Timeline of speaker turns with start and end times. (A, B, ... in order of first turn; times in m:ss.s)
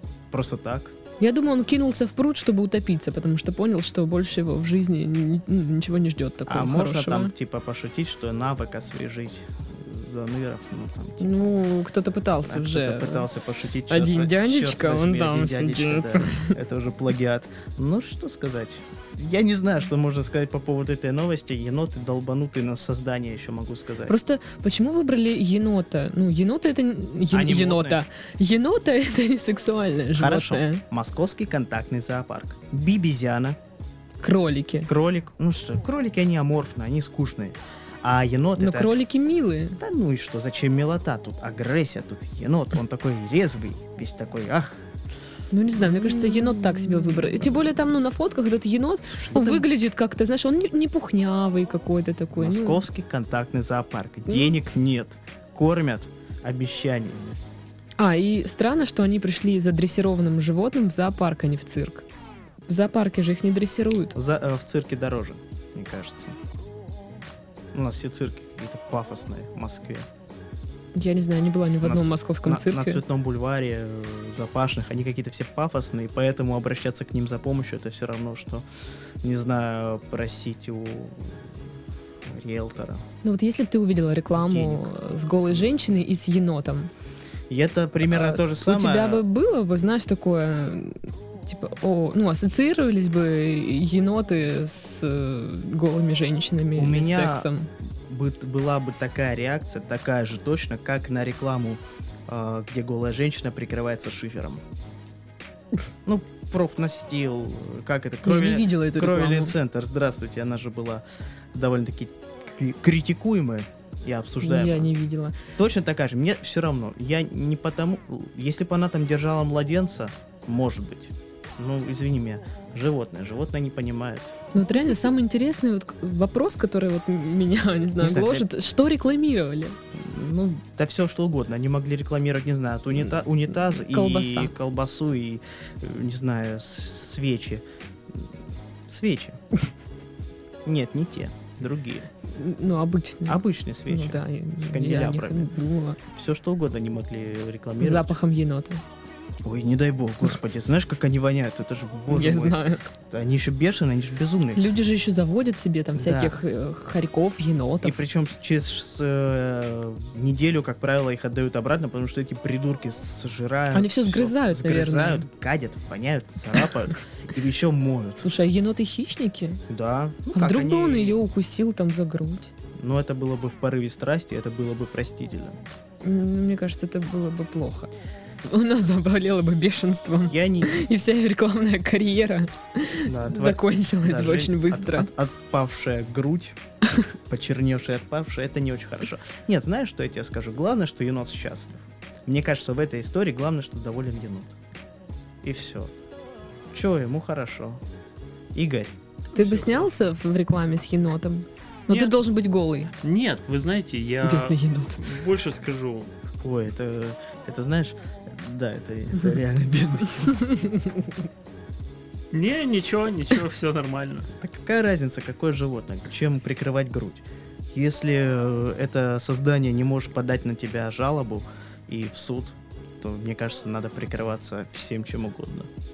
0:00.3-0:00.9 A
0:01.2-0:07.3 B
0:06.5-0:11.5 A
0:11.2-0:13.3 B
0:12.4-0:24.1 A
0:13.9-0:16.5 B
0:24.1-0:30.8 B
0:27.3-0:28.0 A
0:30.2-0:33.6 A
0:34.2-0:34.9 B
0:34.9-0:38.9 A
0:38.6-0:39.8 B
0:39.8-0:44.8 A
0:45.5-0:52.8 B
0:45.9-0:46.5 A
0:49.1-0:49.7 A
0:52.3-0:57.4 A
0:54.3-0:54.5 B
0:58.0-1:02.0 B
1:02.7-1:04.1 B
1:04.1-1:06.4 A
1:07.7-1:10.0 A
1:10.9-1:13.0 B
1:11.8-1:18.6 A
1:19.2-1:21.4 A
1:22.2-1:23.0 A
1:23.2-1:26.9 B
1:24.3-1:24.9 A
1:27.5-1:29.2 A
1:28.0-1:37.7 B
1:36.8-1:37.5 A
1:38.1-1:44.6 A
1:46.0-1:51.0 A
1:48.2-1:49.5 B
1:51.5-1:54.9 A
1:54.4-1:55.3 B
1:55.6-2:04.4 A
2:04.5-2:09.8 B
2:08.0-2:08.4 A
2:09.9-2:18.3 A
2:13.5-2:14.5 B
2:18.8-2:19.4 A
2:20.6-2:22.1 A
2:22.3-2:26.0 B
2:23.3-2:25.5 A
2:26.1-2:28.1 A
2:27.8-2:28.8 B
2:29.4-2:32.6 A
2:32.1-2:32.8 B
2:33.1-2:34.6 A
2:34.5-2:38.0 B
2:36.0-2:36.4 A
2:37.8-2:48.3 A
2:43.7-2:45.2 B
2:48.2-2:49.6 B
2:49.7-2:51.2 A
2:50.3-2:52.5 B
2:52.8-2:55.6 A
2:56.0-2:57.9 B
2:58.4-3:05.1 B
3:00.2-3:00.7 A
3:03.0-3:06.6 A
3:07.3-3:14.5 A
3:15.4-3:15.9 A
3:16.7-3:17.8 A
3:18.5-3:19.8 A
3:19.3-3:22.9 B
3:21.9-3:22.1 C
3:23.0-3:26.1 C
3:24.2-3:25.0 B
3:26.4-3:30.4 A
3:32.3-3:34.3 C
3:34.4-3:45.7 A